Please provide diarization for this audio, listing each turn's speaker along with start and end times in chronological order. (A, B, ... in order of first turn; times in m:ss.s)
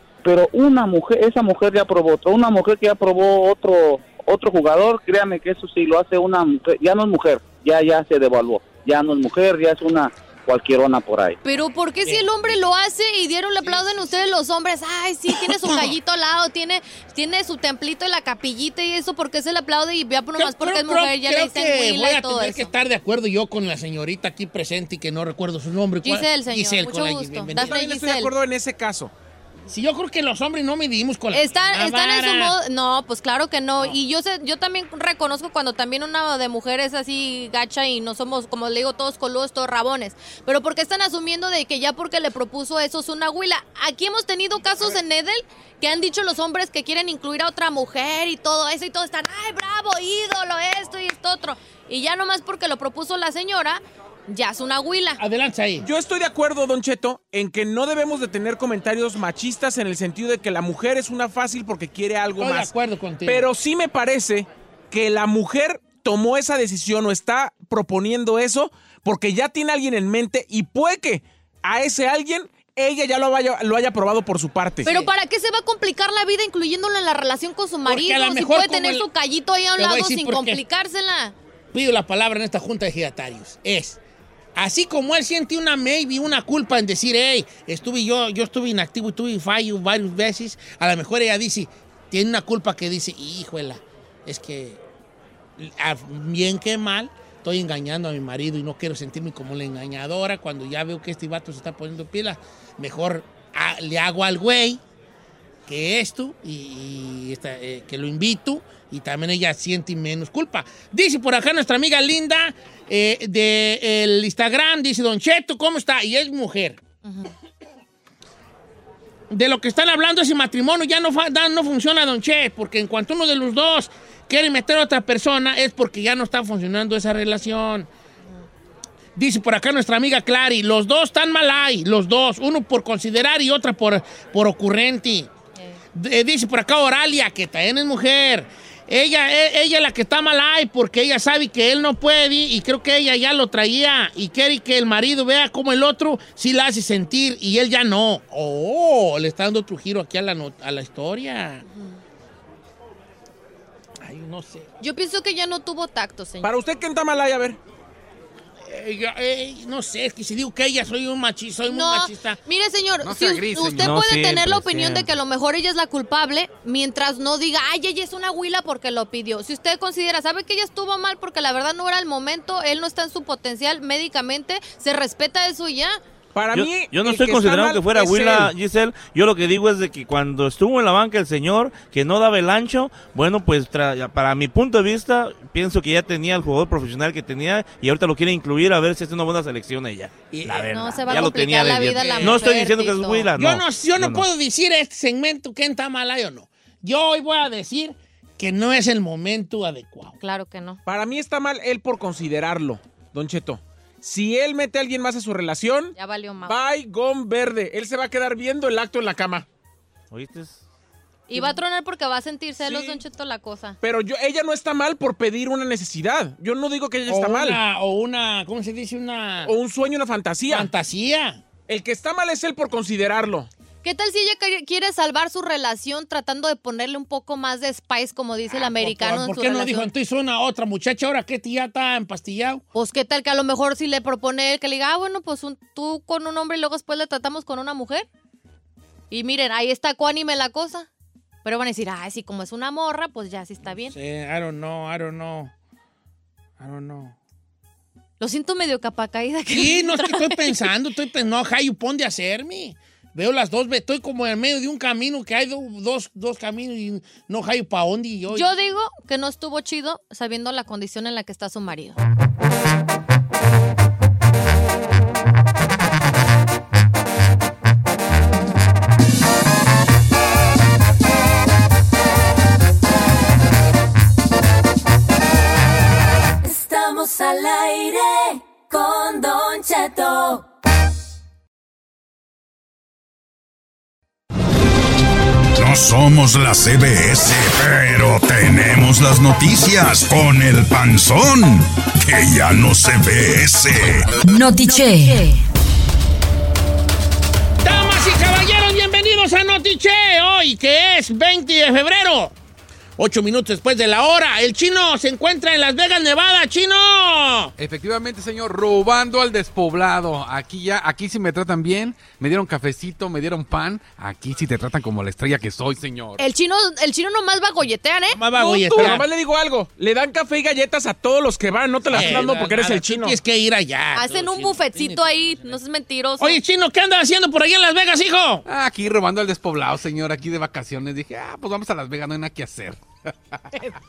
0:00.2-0:11.4 A
0:11.4-0:22.7 B
0:12.0-0:12.5 C
0:13.6-0:14.1 C
0:15.3-0:15.9 C
0:20.4-0:27.8 C
0:26.0-0:28.3 B
0:27.6-0:29.1 D
0:29.7-0:32.5 C
0:31.3-0:55.2 B
0:55.2-0:55.9 C
0:55.8-1:02.7 D
1:02.4-1:03.5 C
1:03.2-1:14.9 D
1:14.8-1:21.3 B
1:17.8-1:19.1 C
1:19.8-1:20.6 C
1:21.7-1:24.0 C
1:24.6-1:34.8 C
1:35.6-1:44.8 C
1:45.7-1:56.8 C
1:57.0-1:57.3 B
1:59.3-2:07.9 C
2:09.2-2:15.3 C
2:15.9-2:31.6 C
2:34.0-2:34.7 C
2:34.8-2:36.5 B
2:36.4-2:37.6 D
2:38.7-2:42.4 C
2:41.7-2:56.0 B
2:43.0-2:44.1 E
2:43.8-2:45.1 F
2:56.3-2:58.5 D
2:56.5-3:14.3 F
3:10.3-3:12.7 C
3:10.7-3:13.3 B
3:13.3-3:20.2 C
3:20.2-3:20.8 B
3:20.8-3:29.4 D
3:26.0-3:26.6 B
3:30.1-3:30.6 F
3:31.3-3:33.8 B
3:32.6-3:33.0 D
3:33.8-3:37.6 D
3:37.1-3:39.5 C
3:39.4-3:40.7 D
3:40.5-3:41.4 C
3:41.7-3:43.5 D
3:43.8-3:49.9 B
3:48.5-3:52.6 C
3:52.7-3:58.1 B
3:59.1-4:00.9 B
4:01.4-4:04.0 B
4:03.9-4:05.5 C
4:06.6-4:07.1 C
4:08.2-4:10.7 B
4:09.5-4:18.5 C
4:18.3-4:22.0 B
4:36.4-4:40.4 G
4:45.6-4:54.1 H
4:54.3-4:55.3 G
4:57.6-5:02.3 C
5:03.0-5:07.5 C
5:07.6-5:16.2 E
5:16.2-5:18.7 B
5:18.2-5:19.0 C
5:18.4-5:23.2 D
5:21.9-5:25.6 C
5:23.9-5:26.4 B
5:26.2-5:28.4 C
5:28.5-5:33.6 E